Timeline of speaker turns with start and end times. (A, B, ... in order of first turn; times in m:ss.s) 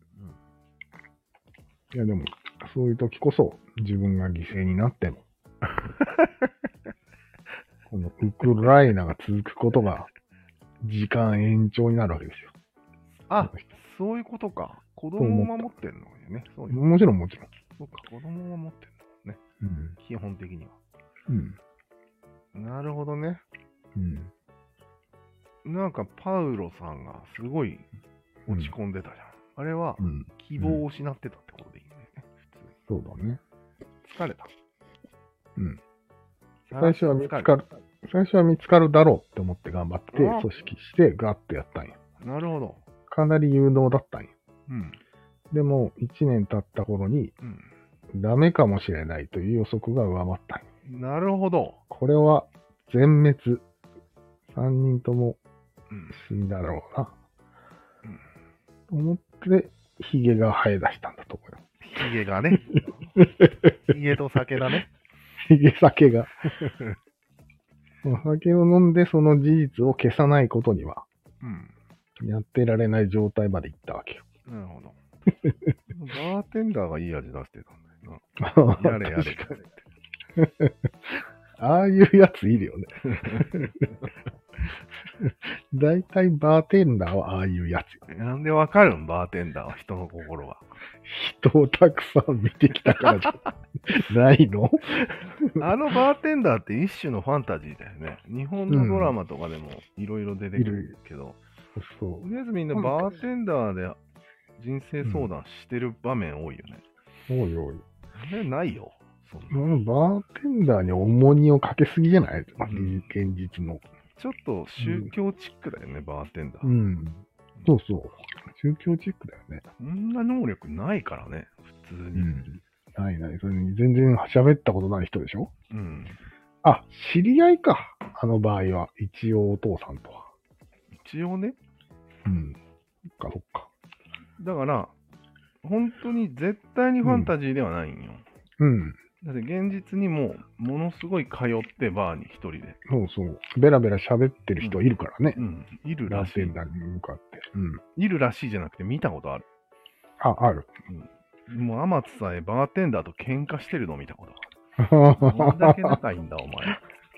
0:01.9-0:05.2 A
0:07.9-0:10.1 A
0:10.8-0:12.5 A
0:13.3-0:16.8 B
0:15.2-0:15.7 A
0:16.7-0:17.5 A
0:17.8-0:19.4 B
0:19.6-0:20.0 A
0:20.0-0:20.8 B
0:21.3-0:21.6 A
0:22.5-0:23.4 B
0:24.0-0:24.3 A
0:25.6-0:27.9 B
0:28.5-0:32.7 B
0:30.0-0:30.8 A
0:32.9-0:33.4 A
0:34.0-0:34.5 B
0:35.6-0:35.8 A
0:36.7-0:37.5 B
0:36.8-0:42.0 A
0:40.1-0:40.5 B
0:42.2-0:42.8 B
0:43.1-0:44.3 A
0:44.7-0:45.0 B
0:45.5-0:47.3 A
0:47.4-0:47.7 B
0:48.1-0:50.7 A
0:50.9-0:51.8 B
0:51.9-0:53.6 A
0:54.5-0:55.4 A
0:55.9-0:56.2 B
0:56.1-0:57.1 A
0:58.9-1:01.6 A
1:01.8-1:03.2 B
1:03.2-1:03.8 A
1:03.8-1:04.9 B
1:05.4-1:06.5 A
1:06.6-1:07.0 B
1:08.0-1:11.0 A
1:11.4-1:11.7 B
1:12.2-1:14.2 A
1:14.5-1:15.0 B
1:15.4-1:15.7 A
1:15.9-1:18.2 B
1:18.4-1:19.5 A
1:18.8-1:19.8 B
1:20.4-1:20.9 A
1:21.6-1:23.9 A
1:23.1-1:23.7 B
1:25.2-1:28.0 A
1:28.1-1:30.6 B
1:31.0-1:35.6 A
1:35.6-1:41.4 B
1:38.7-1:39.2 A
1:40.6-1:40.9 A
1:41.8-1:43.1 A
1:42.2-1:44.0 B
1:44.6-1:46.8 B
1:45.0-1:45.3 A
1:47.3-1:47.8 A
1:48.2-1:49.6 B
1:49.5-1:53.8 A
1:52.6-1:53.0 B
1:54.2-1:56.8 B
1:54.8-1:55.1 A
1:56.6-1:59.6 A
1:59.8-2:02.3 B
2:02.2-2:05.5 A
2:05.7-2:06.2 B
2:06.6-2:10.3 A
2:11.0-2:11.6 B
2:12.2-2:12.6 A
2:13.1-2:13.7 A
2:14.4-2:14.9 B
2:15.6-2:18.2 B
2:17.0-2:17.3 A
2:18.6-2:19.0 A
2:19.2-2:22.8 B
2:22.9-2:25.4 A
2:25.4-2:26.6 B
2:26.1-2:27.8 A
2:28.0-2:29.4 B
2:30.2-2:30.7 A
2:30.9-2:34.5 B
2:34.8-2:36.0 A
2:35.2-2:36.8 B